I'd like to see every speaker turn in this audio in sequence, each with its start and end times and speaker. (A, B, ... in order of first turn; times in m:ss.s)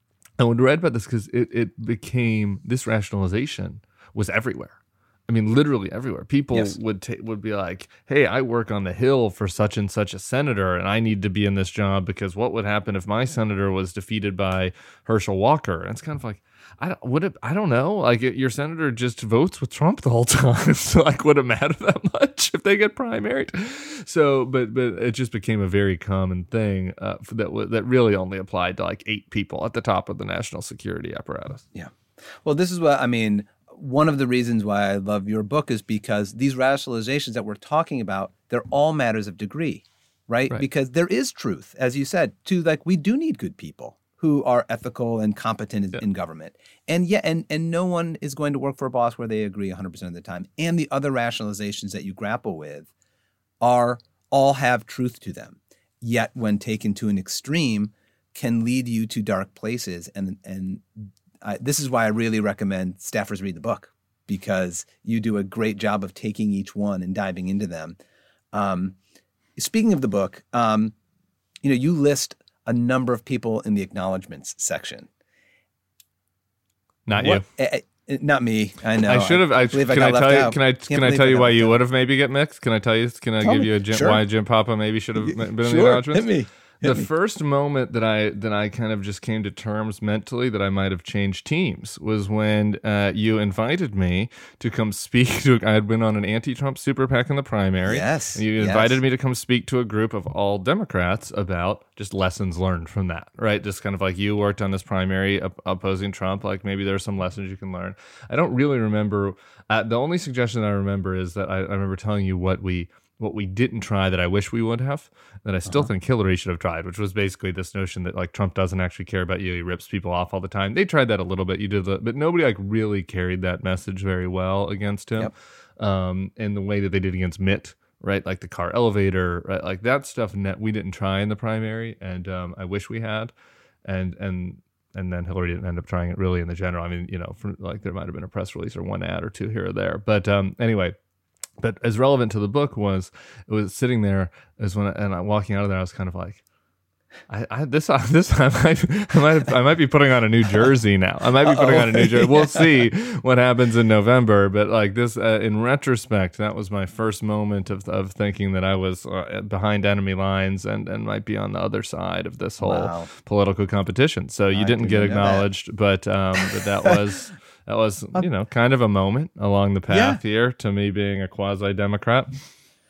0:00.4-0:31.6 A
0:31.7-0:52.9 B
0:53.6-1:08.0 B
1:08.5-1:09.0 B
1:09.6-1:11.0 B
1:11.6-1:15.1 B
1:17.1-1:17.4 A
1:17.2-1:21.8 B
1:19.0-1:26.3 A
1:23.4-1:24.2 B
1:25.2-1:27.1 B
1:26.8-2:13.3 A
1:37.8-1:39.0 B
2:13.8-2:21.0 A
2:21.6-2:26.4 A
2:27.3-2:52.3 A
2:31.6-2:32.3 B
2:42.6-2:43.1 B
2:44.5-2:45.5 B
2:49.9-2:50.2 B